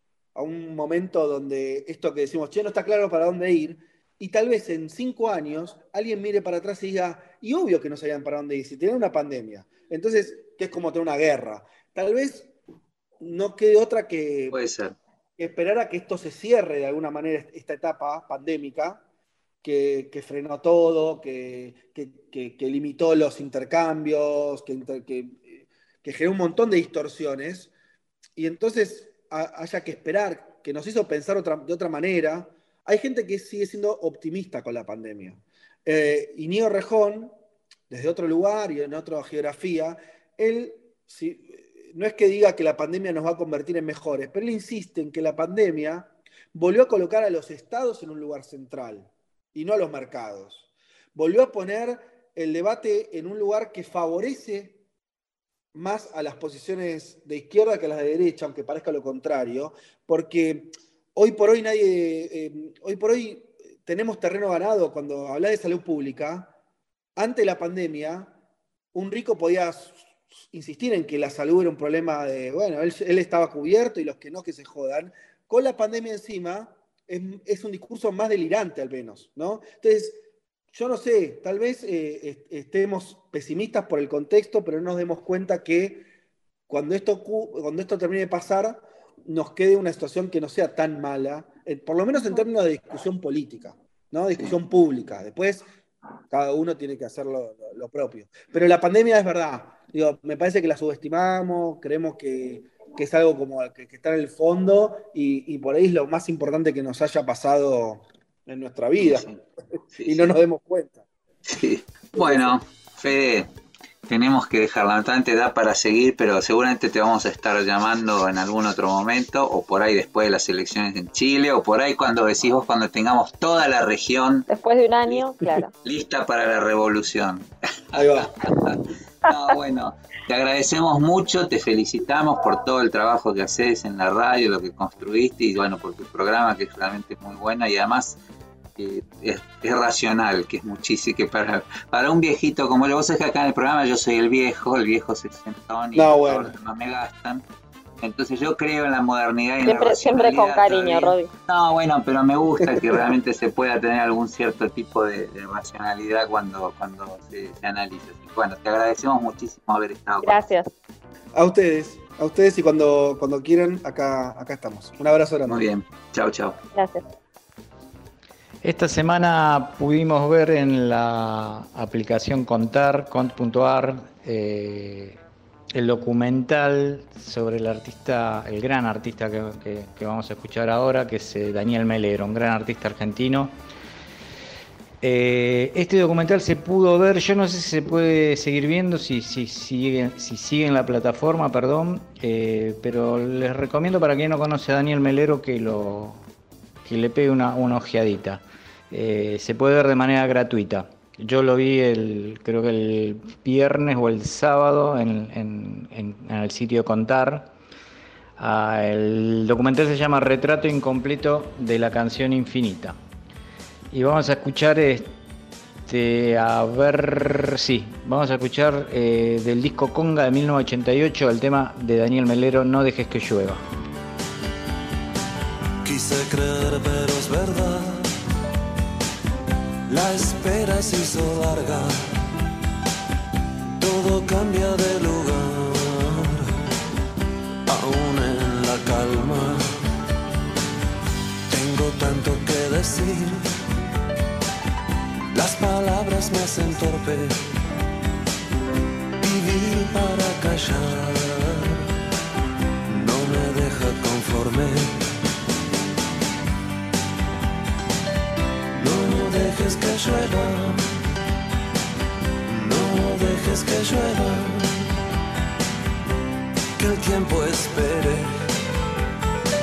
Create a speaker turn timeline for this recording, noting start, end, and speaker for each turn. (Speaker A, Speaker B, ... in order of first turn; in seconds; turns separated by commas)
Speaker A: 0.3-12.5, Speaker A: 13.2-14.5, Speaker B: 14.5-15.0, Speaker A: 15.4-19.0, Speaker A: 19.6-27.7, Speaker A: 28.4-37.3, Speaker A: 37.9-54.8, Speaker A: 55.7-66.5, Speaker A: 67.2-68.3, Speaker A: 68.9-86.0, Speaker A: 86.7-95.6, Speaker A: 96.3-109.3, Speaker B: 109.0-109.3, Speaker B: 109.9-110.3, Speaker A: 110.0-111.0, Speaker B: 111.5-113.5, Speaker A: 112.1-112.5, Speaker B: 114.1-124.5, Speaker C: 124.5-125.7, Speaker B: 125.8-138.2, Speaker A: 127.9-128.3, Speaker B: 138.8-147.4, Speaker A: 145.9-146.5, Speaker B: 148.0-160.4, Speaker C: 149.6-151.3, Speaker C: 160.2-160.7, Speaker A: 161.3-165.6, Speaker B: 165.5-166.6, Speaker C: 166.7-167.0, Speaker D: 168.6-175.2, Speaker D: 175.7-183.5, Speaker D: 185.0-196.2, Speaker D: 196.8-207.5, Speaker D: 208.4-212.9, Speaker D: 213.9-215.1, Speaker D: 215.8-223.6, Speaker E: 231.5-231.8, Speaker E: 233.8-235.4, Speaker E: 237.8-239.4, Speaker E: 241.6-243.2, Speaker E: 245.4-247.1, Speaker E: 249.5-250.9, Speaker E: 253.0-254.7, Speaker E: 258.8-260.5, Speaker E: 262.6-264.2, Speaker E: 266.8-268.1